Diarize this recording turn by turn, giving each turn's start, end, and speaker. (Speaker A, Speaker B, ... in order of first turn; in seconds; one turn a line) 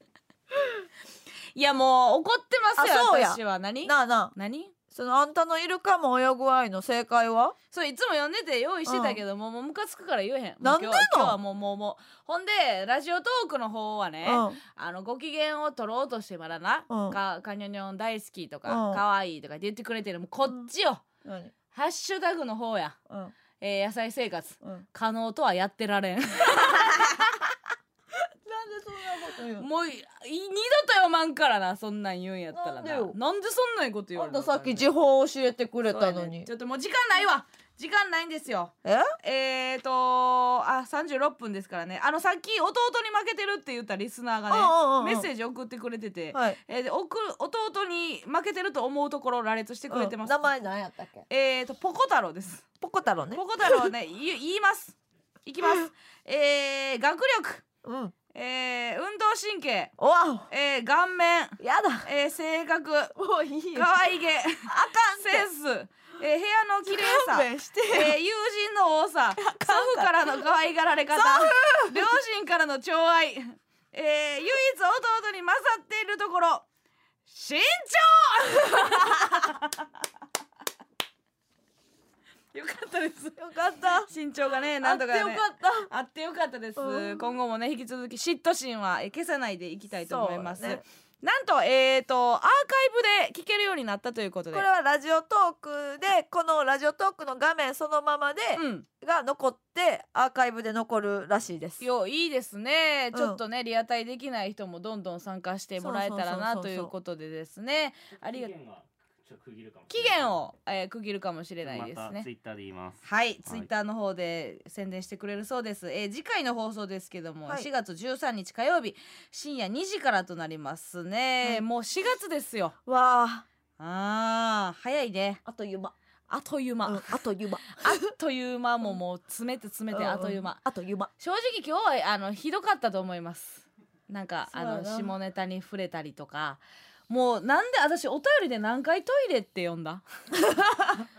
Speaker A: 1.6-4.8
Speaker B: 2.8-4.3
Speaker B: 4.9-7.5
Speaker A: 7.7-21.0
Speaker B: 8.9-9.2
Speaker B: 10.6-11.4
Speaker B: 14.2-14.6
Speaker B: 16.9-17.2
Speaker B: 18.7-19.0
Speaker B: 21.2-21.5
Speaker A: 21.7-23.0
Speaker A: 23.6-27.4
Speaker B: 26.8-27.1
Speaker B: 28.4-29.7
Speaker A: 29.5-34.9
Speaker B: 32.5-33.2
Speaker B: 34.2-36.5
Speaker A: 35.9-50.5
Speaker B: 38.9-39.1
Speaker B: 44.5-45.3
Speaker B: 49.9-51.2
Speaker A: 51.3-52.6
Speaker B: 52.8-53.9
Speaker A: 53.3-57.6
Speaker B: 57.8-58.1
Speaker A: 58.3-59.9
Speaker B: 60.0-60.5
Speaker A: 60.5-63.1
Speaker B: 61.6-62.1
Speaker B: 63.2-64.0
Speaker A: 63.7-76.7
Speaker B: 64.7-65.5
Speaker B: 66.8-68.2
Speaker B: 69.4-70.1
Speaker B: 71.1-72.1
Speaker A: 77.3-79.8
Speaker A: 82.5-83.4
Speaker B: 83.4-84.1
Speaker A: 84.0-94.7
Speaker B: 84.8-85.9
Speaker B: 86.8-87.2
Speaker B: 90.1-90.8
Speaker B: 94.5-101.8
Speaker A: 98.5-98.9
Speaker A: 101.8-108.5
Speaker B: 103.1-103.4
Speaker B: 105.8-106.9
Speaker C: 108.1-110.4
Speaker A: 109.9-112.3
Speaker C: 111.6-113.7
Speaker A: 113.0-122.8
Speaker B: 122.9-123.5
Speaker A: 123.8-125.4
Speaker B: 125.5-125.9
Speaker A: 126.3-130.6
Speaker B: 126.9-128.1
Speaker B: 129.9-131.1
Speaker A: 131.2-140.0
Speaker B: 134.5-135.1
Speaker B: 140.4-140.9